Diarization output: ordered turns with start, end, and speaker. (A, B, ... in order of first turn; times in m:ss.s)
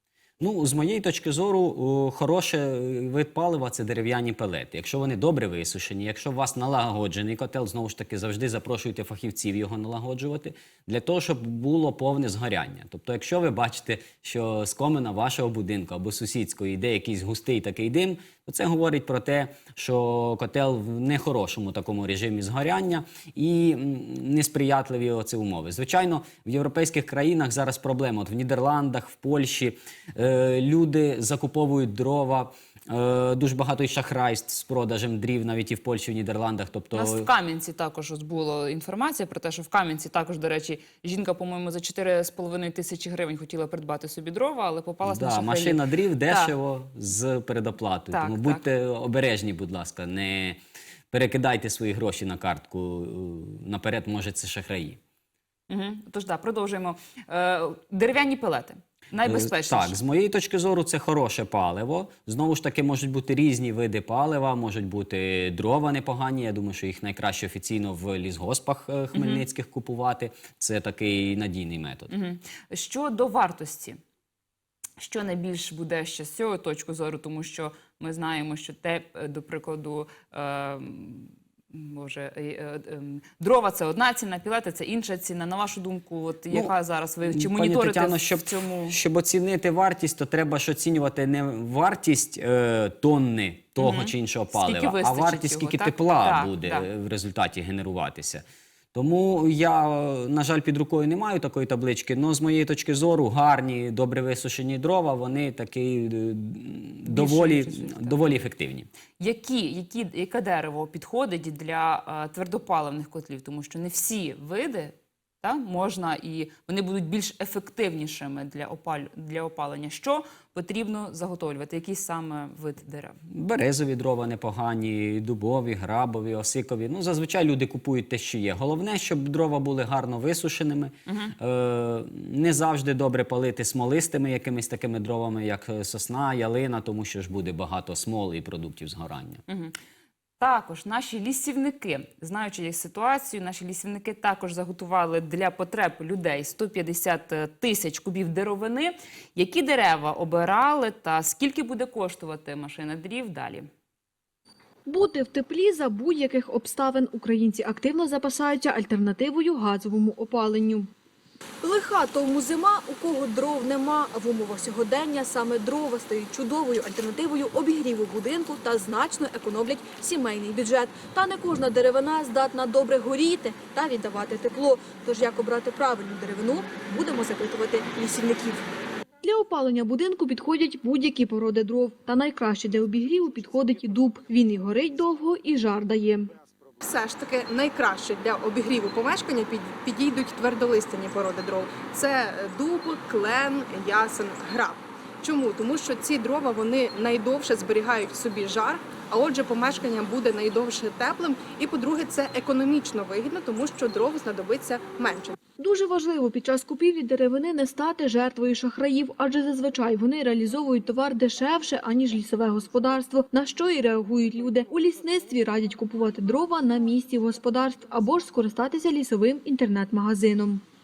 0:00.4-0:37.3 A
0:36.9-0:46.5 B
0:45.0-0:50.6 A
0:48.1-0:48.6 B
0:51.1-0:55.0 A
0:55.7-1:00.0 B
0:59.2-1:12.1 A
1:09.1-1:09.4 B
1:12.1-1:14.0 B
1:15.0-1:29.0 B
1:27.2-1:48.9 A
1:33.8-1:36.8 B
1:47.0-1:48.2 B
1:49.2-2:03.2 B
2:03.3-2:19.4 A
2:11.1-2:11.3 B
2:19.5-2:19.8 B
2:20.4-2:33.7 B
2:34.8-2:40.9 C
2:41.6-2:58.7 C
2:59.2-3:06.3 C
3:06.8-3:25.3 D
3:25.6-3:40.6 C